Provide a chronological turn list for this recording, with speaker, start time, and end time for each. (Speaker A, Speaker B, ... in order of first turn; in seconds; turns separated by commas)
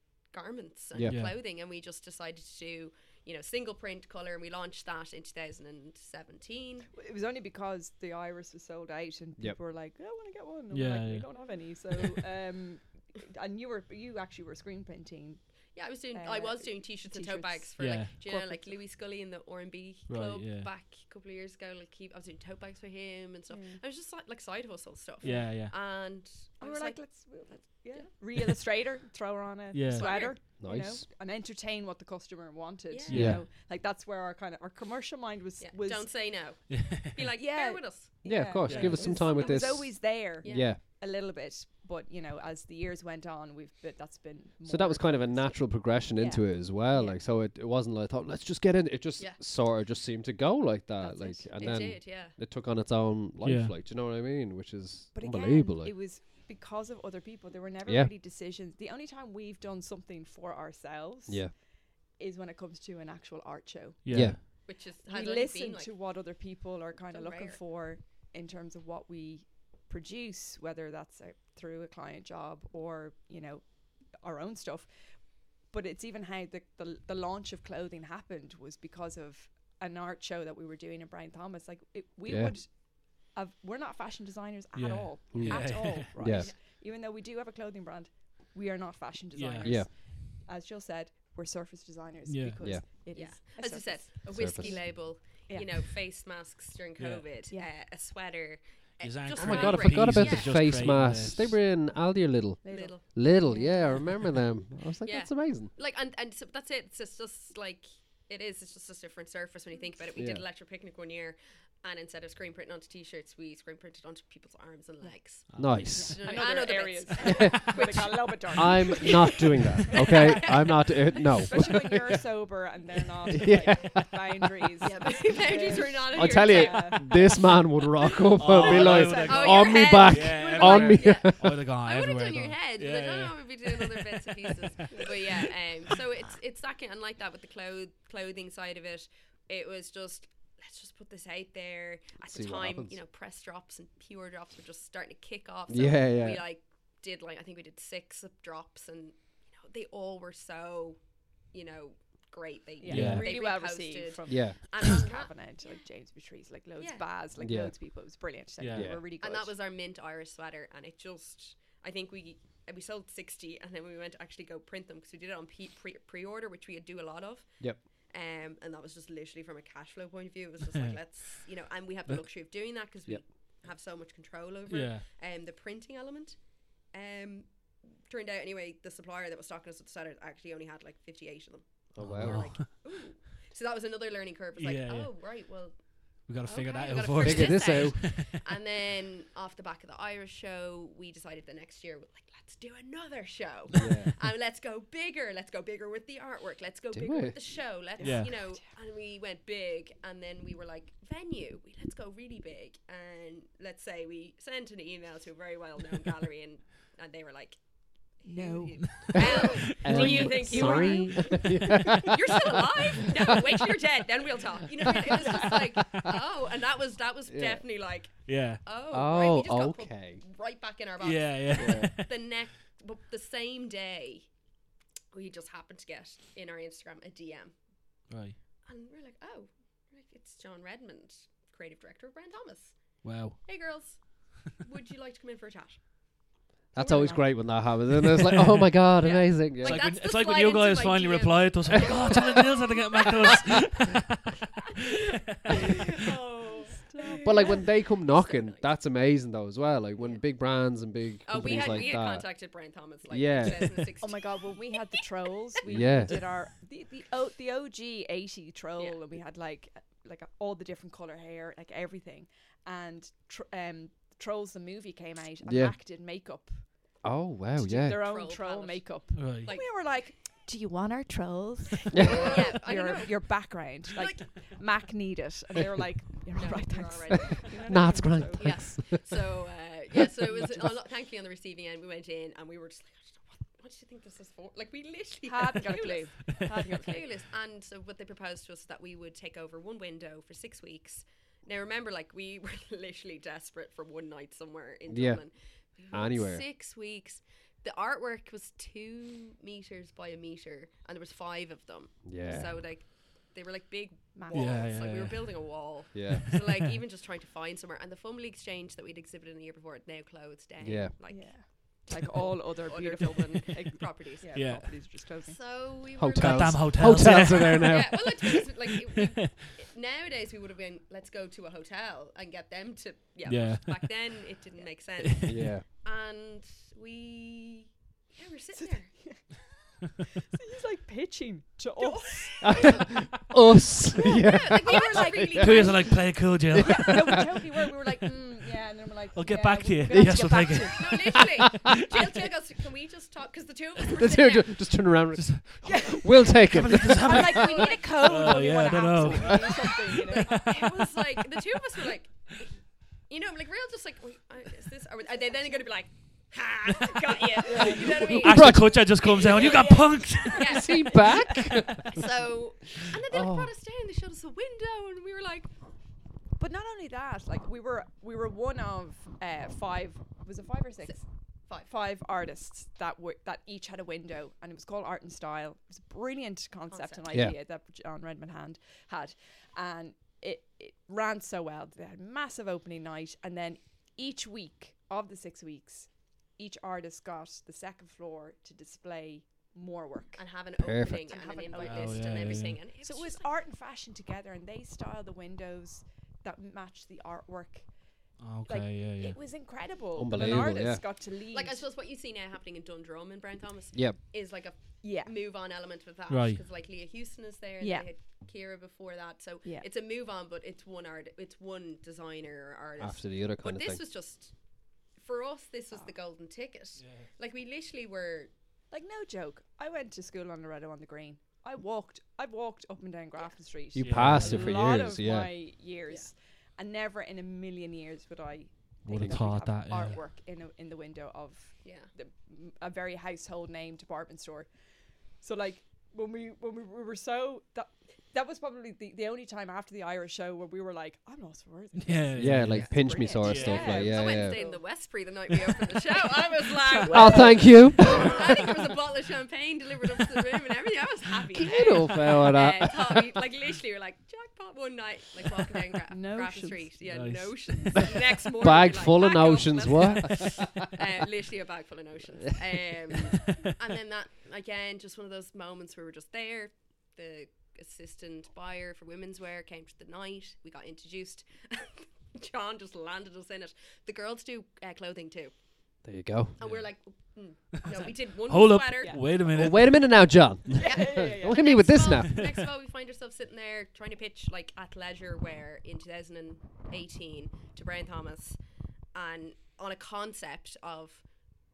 Speaker A: 0.3-6.9, Speaker B: 0.9-1.2, Speaker C: 1.1-1.4, Speaker D: 6.9-18.8, Speaker C: 10.7-11.3, Speaker A: 15.7-28.1, Speaker C: 17.8-18.1, Speaker C: 20.1-20.7, Speaker D: 23.5-23.8, Speaker D: 25.2-25.5, Speaker C: 25.2-25.7, Speaker D: 26.6-36.1, Speaker C: 29.7-30.3, Speaker A: 29.9-30.4, Speaker B: 30.6-31.1, Speaker A: 32.9-33.2, Speaker C: 33.1-33.4, Speaker B: 33.1-33.4, Speaker A: 35.6-38.1, Speaker C: 36.7-37.3, Speaker D: 37.4-47.2, Speaker B: 38.2-40.8, Speaker C: 38.7-39.1, Speaker A: 38.7-39.8, Speaker A: 40.4-40.7, Speaker B: 44.6-55.9, Speaker D: 51.0-51.9, Speaker A: 51.6-52.4, Speaker C: 53.4-53.7, Speaker D: 55.1-95.8, Speaker B: 57.9-58.1, Speaker B: 61.3-61.5, Speaker C: 64.0-64.4, Speaker B: 64.1-64.4, Speaker A: 64.7-66.0, Speaker A: 67.1-67.6, Speaker B: 82.3-82.6, Speaker C: 84.8-86.1, Speaker B: 85.3-86.5, Speaker A: 86.2-86.5, Speaker C: 89.4-89.9, Speaker B: 89.6-89.9, Speaker C: 92.3-92.7, Speaker A: 93.1-100.6, Speaker B: 94.3-94.9, Speaker C: 97.0-97.3, Speaker C: 99.0-101.6, Speaker B: 99.3-105.7, Speaker D: 102.6-104.2, Speaker A: 102.7-103.0, Speaker A: 105.0-120.9, Speaker B: 110.2-110.4, Speaker C: 115.5-116.1, Speaker B: 115.6-116.2, Speaker D: 115.9-120.8, Speaker B: 117.2-122.2, Speaker D: 121.4-127.1, Speaker B: 123.3-124.2, Speaker A: 124.8-127.8, Speaker B: 125.7-131.6, Speaker C: 128.4-136.0, Speaker A: 128.4-155.8, Speaker D: 128.5-130.0, Speaker D: 130.5-130.9, Speaker B: 142.3-143.0, Speaker B: 145.7-146.4, Speaker D: 152.8-159.5, Speaker C: 152.9-153.2, Speaker B: 154.3-154.9, Speaker A: 156.8-157.1, Speaker B: 157.4-157.8, Speaker C: 158.6-158.9, Speaker B: 158.7-159.0, Speaker A: 159.2-224.3, Speaker C: 174.7-175.1, Speaker B: 181.9-182.6, Speaker C: 182.0-182.7, Speaker C: 184.6-185.3, Speaker C: 186.2-188.4, Speaker B: 187.2-188.2, Speaker B: 193.8-194.1, Speaker B: 196.9-197.6, Speaker D: 198.0-198.7, Speaker C: 198.0-198.3, Speaker D: 208.2-211.8, Speaker C: 209.0-210.4, Speaker B: 209.2-212.8, Speaker C: 215.1-215.9, Speaker B: 217.3-217.6, Speaker C: 218.3-218.6, Speaker B: 218.9-220.2, Speaker C: 221.0-222.2, Speaker B: 221.5-221.9, Speaker A: 225.1-227.6, Speaker C: 228.1-228.4, Speaker A: 228.6-235.9, Speaker C: 233.0-233.5, Speaker D: 236.8-237.4, Speaker B: 236.8-239.8, Speaker C: 238.0-238.8, Speaker A: 239.0-243.7, Speaker C: 239.6-245.7, Speaker B: 241.8-242.1, Speaker A: 245.5-248.7, Speaker D: 246.5-247.6, Speaker B: 247.2-252.4, Speaker A: 251.2-254.5, Speaker B: 253.1-253.9, Speaker D: 254.0-267.0, Speaker B: 255.7-256.2, Speaker A: 255.7-256.2, Speaker B: 265.4-265.8, Speaker B: 267.0-268.1, Speaker D: 267.6-278.6, Speaker A: 267.9-269.9, Speaker C: 269.1-269.5, Speaker B: 271.9-272.5, Speaker A: 272.0-274.3, Speaker A: 276.4-311.7, Speaker B: 277.5-279.3, Speaker B: 280.0-280.7, Speaker D: 285.2-287.1, Speaker B: 294.9-295.2, Speaker B: 295.9-296.4, Speaker B: 302.1-302.6, Speaker D: 304.1-304.7, Speaker C: 304.3-306.6, Speaker B: 305.9-306.2, Speaker B: 310.6-310.9, Speaker D: 311.1-315.4, Speaker A: 312.7-314.7, Speaker C: 314.3-314.7, Speaker A: 315.2-328.9, Speaker B: 316.0-318.3, Speaker C: 316.1-319.5, Speaker C: 323.2-324.2, Speaker C: 325.0-325.5, Speaker B: 325.2-325.6, Speaker D: 328.6-332.9, Speaker A: 331.8-332.9, Speaker B: 332.4-335.8, Speaker A: 334.1-336.0, Speaker D: 334.1-336.0, Speaker C: 335.4-337.3, Speaker B: 336.5-337.2, Speaker D: 336.6-341.2, Speaker C: 339.1-342.3, Speaker B: 339.9-341.7, Speaker A: 340.7-344.6, Speaker D: 341.9-342.3, Speaker B: 343.9-347.7, Speaker C: 345.2-351.2, Speaker D: 345.6-350.5, Speaker A: 347.3-352.5, Speaker A: 353.1-365.5, Speaker D: 357.4-358.2, Speaker B: 357.4-358.9, Speaker C: 357.5-360.7, Speaker D: 359.4-361.4, Speaker B: 360.4-362.1, Speaker B: 363.1-363.5, Speaker D: 366.4-371.1, Speaker A: 370.9-371.7, Speaker D: 371.6-390.3, Speaker A: 376.7-377.2, Speaker A: 390.2-393.2, Speaker B: 390.6-391.1, Speaker D: 390.9-397.9, Speaker C: 391.6-392.6, Speaker C: 398.2-399.2, Speaker D: 398.5-401.6, Speaker B: 400.0-400.9, Speaker A: 401.3-414.4, Speaker D: 404.8-405.1, Speaker C: 406.1-406.4, Speaker D: 407.6-407.9, Speaker B: 412.8-413.8, Speaker A: 414.9-418.3, Speaker C: 416.8-417.1, Speaker D: 418.7-434.5, Speaker B: 423.7-425.3, Speaker C: 423.8-424.6, Speaker C: 428.9-430.0, Speaker B: 428.9-429.3, Speaker A: 431.6-431.9, Speaker D: 435.2-444.6, Speaker C: 441.8-443.7, Speaker B: 442.2-444.4, Speaker A: 442.5-475.3, Speaker D: 446.6-448.3, Speaker B: 446.9-448.2, Speaker B: 451.3-453.1, Speaker D: 455.9-456.7, Speaker C: 456.9-457.8, Speaker B: 457.9-460.7, Speaker B: 475.8-476.4, Speaker A: 476.4-479.1, Speaker C: 476.4-476.7, Speaker D: 477.6-477.9, Speaker C: 477.7-479.9, Speaker B: 479.3-482.2, Speaker D: 480.6-481.5, Speaker A: 480.6-488.4, Speaker A: 488.9-491.1